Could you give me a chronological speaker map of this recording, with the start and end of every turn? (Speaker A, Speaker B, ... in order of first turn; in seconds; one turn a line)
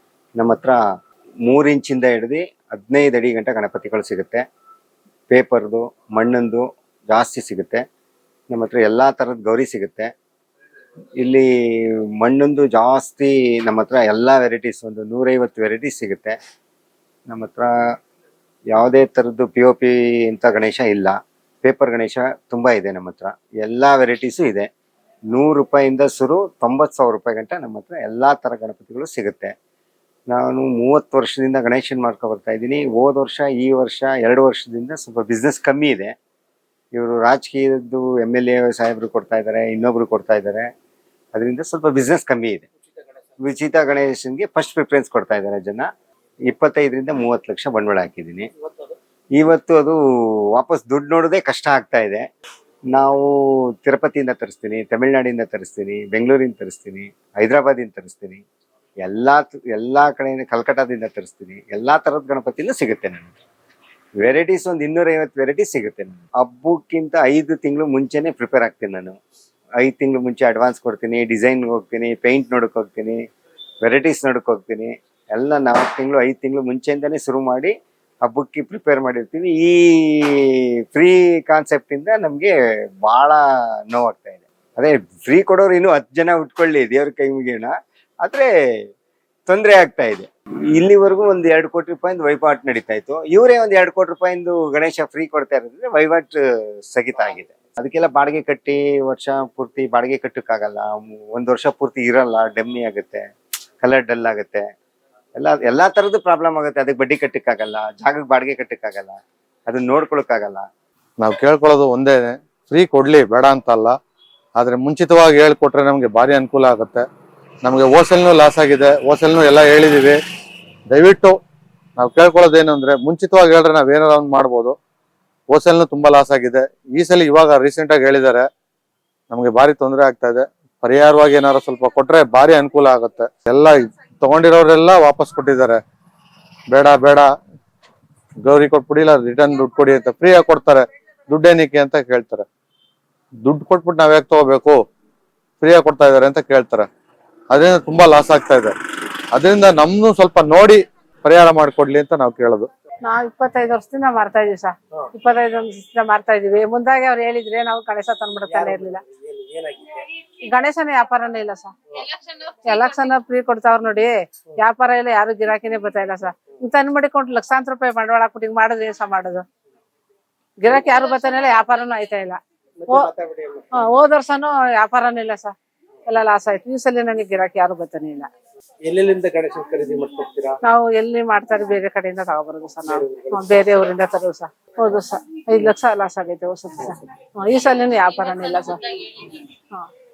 Speaker A: 0.3-0.8
Speaker A: 1.4-4.4
Speaker A: 5.3-7.8
Speaker A: 8.5-10.1
Speaker A: 11.2-16.4
Speaker A: 17.3-17.7
Speaker A: 18.7-24.7
Speaker A: 25.3-29.5
Speaker A: 30.3-36.1
Speaker A: 36.9-40.7
Speaker A: 41.3-42.7
Speaker A: 43.4-45.9
Speaker A: 46.5-48.5
Speaker A: 49.4-52.2
Speaker A: 52.9-58.4
Speaker A: 59.0-63.4
Speaker A: 64.2-69.2
Speaker A: 69.8-73.2
Speaker A: 73.8-88.5
Speaker A: 89.5-103.3
Speaker A: 103.8-104.7
Speaker A: 105.4-110.7
Speaker B: 111.2-114.0
Speaker B: 114.6-117.0
Speaker B: 117.6-120.2
Speaker B: 120.9-121.4
Speaker B: 122.0-124.8
Speaker B: 125.5-128.5
Speaker B: 129.3-135.8
Speaker B: 136.7-137.3
Speaker B: 138.4-142.4
Speaker B: 143.4-144.8
Speaker B: 145.6-146.9
Speaker B: 147.5-148.7
Speaker B: 149.3-152.7
Speaker C: 153.0-159.0
Speaker D: 158.5-160.1
Speaker C: 160.4-161.7
Speaker C: 162.3-169.4
Speaker C: 170.6-173.1
Speaker D: 172.8-173.7
Speaker C: 173.7-175.5
Speaker C: 176.1-178.3
Speaker D: 178.8-180.6
Speaker C: 180.6-189.9
Speaker D: 182.9-183.4